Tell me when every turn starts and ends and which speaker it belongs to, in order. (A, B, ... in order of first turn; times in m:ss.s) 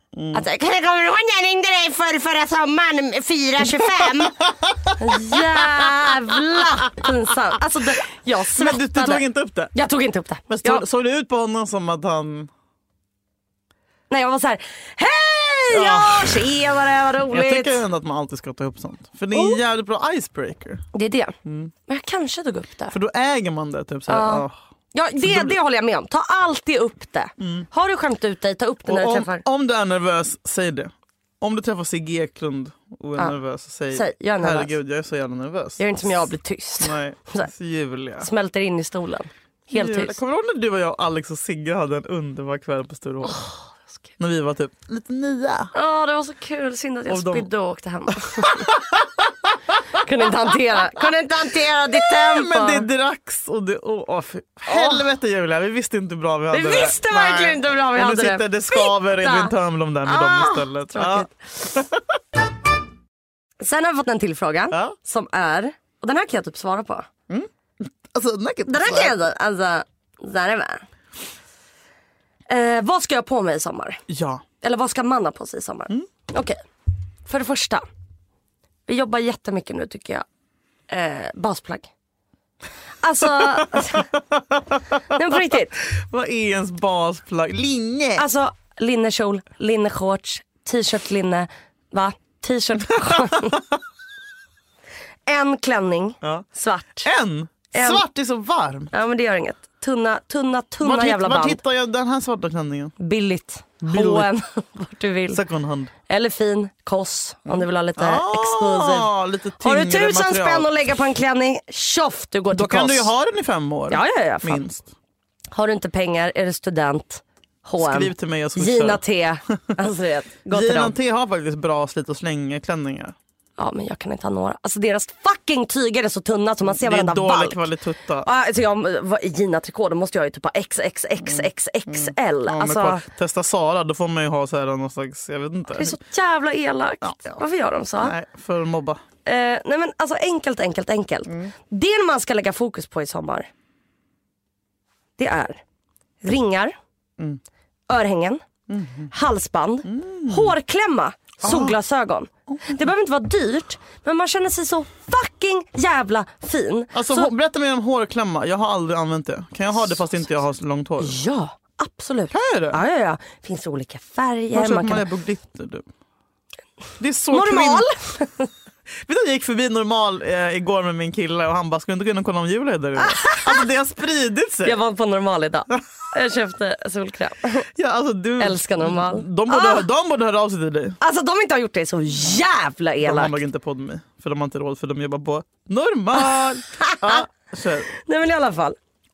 0:00.1-0:00.4 A
0:00.3-0:04.4 B
0:03.6-0:06.1 A
0:05.0-0:10.8 B
0:08.5-0:09.7 A
0:10.5-0:12.5 A
0:14.1-0:17.8 B
0:15.7-0:16.6 A
0:17.3-0:20.8 A
0:19.3-0:19.6 B
0:20.9-0:21.4 B
0:21.4-0:21.7 A
0:21.9-0:22.9 B
0:22.9-0:24.5 A
0:24.1-0:29.4 B
0:25.2-0:25.6 A
0:27.4-0:27.7 A
0:28.8-0:36.2 A
0:33.9-0:34.7 B
0:35.8-0:37.5 B
0:36.8-0:38.3 A
0:38.2-0:40.2 B
0:39.7-0:43.4 A
0:43.2-0:43.6 B
0:44.2-0:45.7 A
0:45.7-0:48.7 B
0:47.1-0:47.5 A
0:48.1-0:50.5 A
0:49.9-0:52.9 B
0:51.9-1:02.0 A
0:54.6-0:55.1 B
0:56.5-0:59.5 B
1:00.0-1:01.3 B
1:03.6-1:07.1 B
1:04.7-1:05.0 A
1:07.3-1:09.2 A
1:08.7-1:10.8 B
1:12.5-1:14.0 B
1:14.1-1:14.4 A
1:14.6-1:16.6 B
1:17.2-1:17.8 B
1:18.9-1:20.2 B
1:20.9-1:21.9 B
1:23.0-1:24.1 B
1:23.2-1:28.2 A
1:25.1-1:25.8 B
1:28.2-1:33.6 B
1:33.1-1:33.6 A
1:35.2-1:37.1 B
1:37.0-1:38.9 A
1:37.7-1:38.0 B
1:38.9-1:41.6 B
1:40.8-1:42.9 A
1:43.0-1:45.4 B
1:43.8-1:44.3 A
1:45.3-1:45.9 A
1:46.1-1:53.1 B
1:47.4-1:50.8 A
1:52.5-1:54.9 A
1:53.9-1:54.6 B
1:55.5-2:01.0 B
1:57.8-1:59.0 A
2:00.5-2:03.2 A
2:03.6-2:07.6 B
2:06.6-2:08.3 A
2:08.2-2:13.0 B
2:11.2-2:16.0 A
2:15.7-2:18.2 B
2:17.0-2:17.4 A
2:18.0-2:19.0 A
2:19.2-2:23.5 B
2:21.3-2:21.5 A
2:25.2-2:25.6 B
2:26.2-2:26.8 B
2:27.9-2:28.4 B
2:28.7-2:29.1 A
2:29.1-2:37.3 B
2:29.8-2:30.6 A
2:31.4-2:31.8 A
2:32.5-2:32.8 A
2:36.9-2:41.2 A
2:39.8-2:40.0 B
2:41.0-2:45.0 B
2:42.3-2:42.8 A
2:44.5-2:45.8 A
2:47.0-2:47.9 A
2:47.3-2:48.5 B
2:48.9-2:54.8 A
2:53.0-2:53.6 B
2:54.6-2:57.7 B
2:57.8-3:01.0 A
2:58.4-2:59.9 B
3:01.0-3:03.4 B
3:03.0-3:07.9 A
3:06.2-3:07.2 B
3:07.9-3:08.8 B